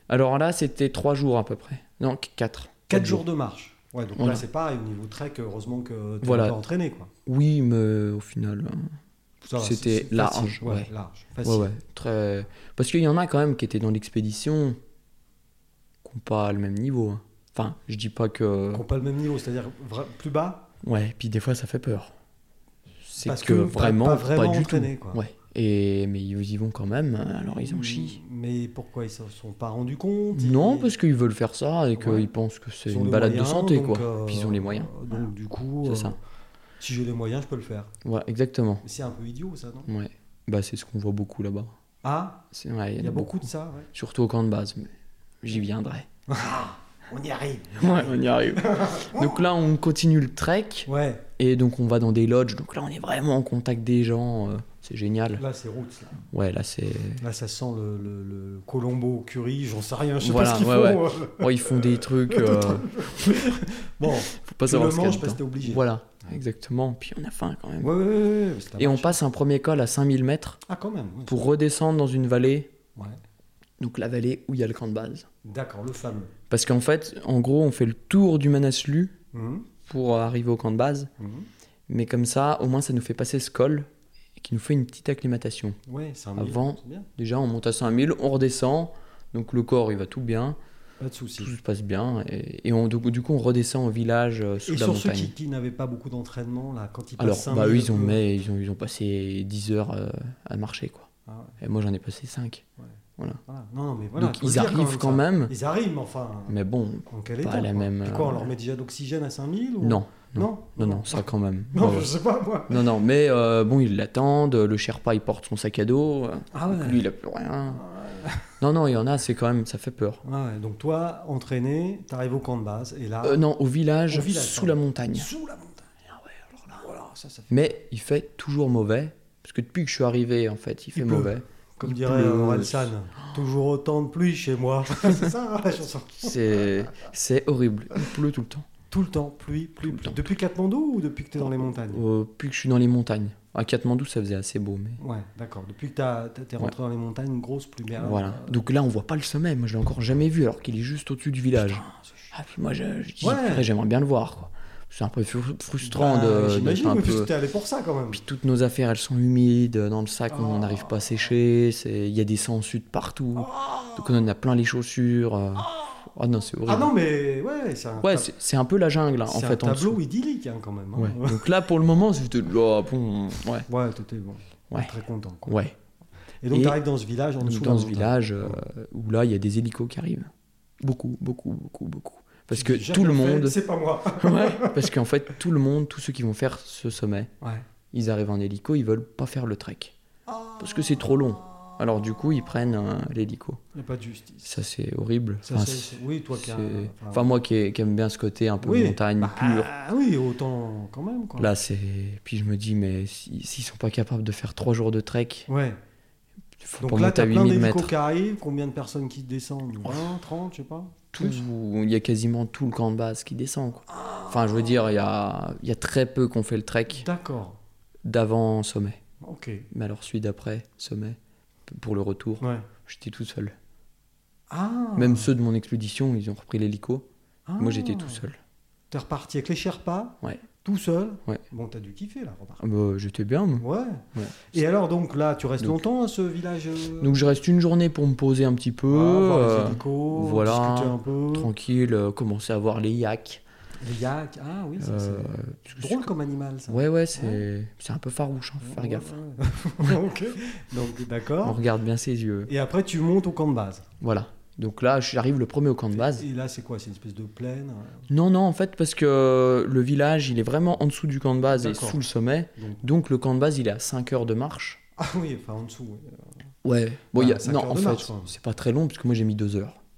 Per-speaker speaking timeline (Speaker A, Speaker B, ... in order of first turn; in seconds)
Speaker A: 0.1-3.2, 4.1-4.4, 6.2-6.6, 7.3-9.0, 9.6-10.9, 11.4-14.8, 16.0-18.9, 20.8-22.1, 23.1-28.2, 30.3-35.3, 35.8-36.2, 38.0-38.8, 39.9-41.8, 42.5-44.9, 45.4-46.1, 47.8-55.4, 56.3-57.2, 60.2-63.4, 64.1-67.9, 68.8-70.6, 71.3-72.7, 73.8-75.3, 76.5-79.1, 79.8-81.1, 81.9-85.8, 86.4-90.6, 91.4-95.3, 97.2-101.1, 101.6-102.6, 104.2-105.5, 106.5-108.5, 109.8-112.1, 112.7-117.8, 118.6-120.2, 123.2-125.3, 126.1-126.8, 127.5-132.9, 136.2-138.7, 139.9-140.3, 141.4-145.0, 148.0-157.3, 158.1-166.9, 168.0-170.0, 171.0-173.7, 175.5-175.8, 176.5-176.8, 177.4-180.3, 180.8-183.6, 184.2-187.3, 187.9-189.9, 190.6-193.6, 194.4-199.7, 201.4-205.5, 206.6-207.9, 211.1-217.1, 218.0-219.0, 219.7-223.6, 225.0-227.1, 227.6-228.4, 232.6-234.4, 237.0-243.4, 244.8-246.1, 246.7-249.2, 251.4-252.5, 254.0-256.3, 258.1-264.8, 266.6-269.8
Speaker B: 2.9-7.1, 9.4-11.7, 18.7-20.7, 23.2-25.2, 27.5-30.9, 32.0-32.3, 32.9-36.2, 36.8-37.9, 38.8-39.9, 42.0-42.4, 43.0-43.9, 46.3-49.5, 50.9-51.2, 55.4-56.2, 57.2-65.8, 67.8-69.2, 70.7-71.5, 75.5-76.3, 79.3-79.7, 81.2-81.5, 85.9-87.1, 91.0-91.5, 94.7-98.2, 101.3-101.6, 103.5-106.6, 107.1-112.9, 116.5-117.0, 117.7-118.5, 120.2-123.4, 124.1-125.9, 126.8-127.6, 130.9-136.9, 138.9-142.1, 145.0-148.6, 151.8-152.3, 153.2-153.7, 155.8-158.2, 160.3-161.0, 163.4-164.1, 166.7-168.3, 169.3-171.5, 173.7-175.6, 176.4-178.6, 182.5-184.9, 190.3-191.8, 193.7-194.6, 195.4-197.3, 198.6-201.5, 205.5-205.8, 206.8-211.4, 213.9-214.8, 216.9-217.6, 219.2-219.7, 222.4-222.7, 224.5-225.3, 227.5-228.2, 228.9-232.6, 233.6-237.3, 238.9-241.5, 243.8-247.4, 248.6-251.6, 252.5-253.9, 255.9-258.1, 261.6-262.0, 262.6-262.8, 265.0-266.3, 267.1-268.3